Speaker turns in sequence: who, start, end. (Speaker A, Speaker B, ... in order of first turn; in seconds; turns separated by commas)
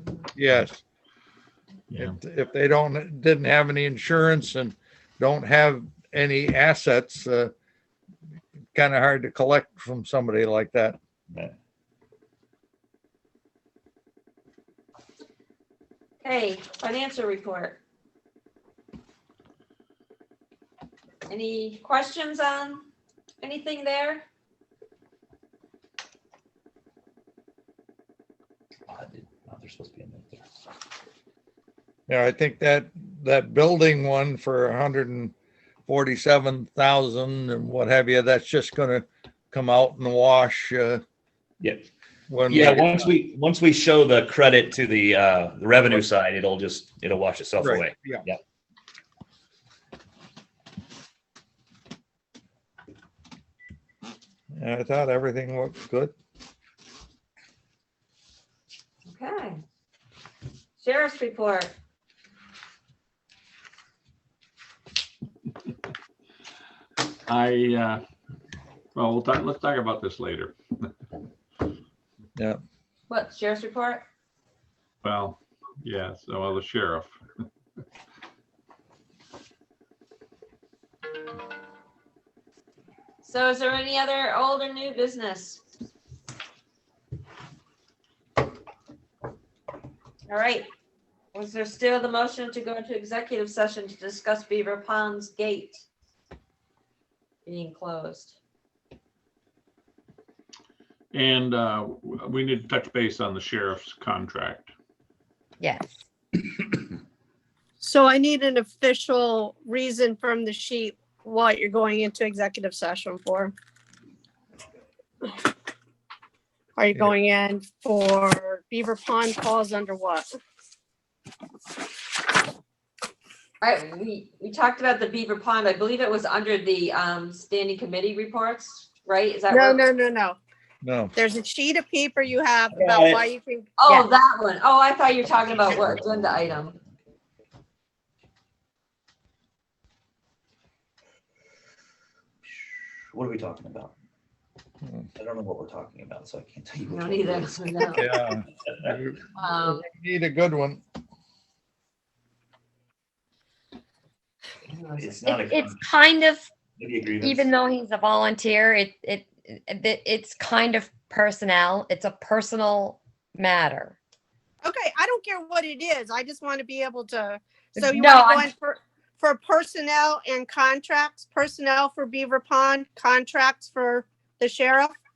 Speaker A: 0.3-0.8, Speaker B: 1.9-2.2, Speaker A: 1.9-7.5, Speaker A: 8.7-11.0, Speaker C: 16.2-17.8, Speaker C: 21.3-22.9, Speaker C: 23.4-24.2, Speaker D: 28.9-30.5, Speaker A: 32.1-35.3, Speaker A: 35.9-41.0, Speaker D: 41.6-41.9, Speaker A: 42.3-43.1, Speaker D: 42.5-48.4, Speaker A: 47.6-48.2, Speaker A: 54.5-56.1, Speaker C: 59.1-59.6, Speaker C: 60.8-61.7, Speaker B: 67.2-68.0, Speaker B: 68.9-70.9, Speaker C: 73.1-74.0, Speaker B: 75.0-77.2, Speaker C: 83.2-85.6, Speaker C: 90.3-90.7, Speaker C: 91.3-95.8, Speaker C: 97.5-98.3, Speaker B: 101.1-104.7, Speaker E: 105.6-105.9, Speaker F: 107.8-113.5, Speaker F: 116.8-120.2, Speaker C: 123.6-129.8, Speaker F: 129.5-130.4, Speaker A: 130.8-131.1, Speaker F: 131.1-133.7, Speaker D: 132.7-133.2, Speaker C: 133.8-136.8, Speaker D: 135.7-136.3, Speaker D: 142.5-143.9, Speaker D: 145.2-147.5, Speaker C: 146.9-148.2, Speaker A: 147.9-150.8, Speaker C: 149.3-149.8, Speaker C: 154.7-155.2, Speaker D: 155.0-155.8, Speaker E: 155.3-156.5, Speaker D: 156.8-157.5, Speaker E: 157.2-163.9, Speaker F: 164.6-174.9, Speaker E: 167.8-168.4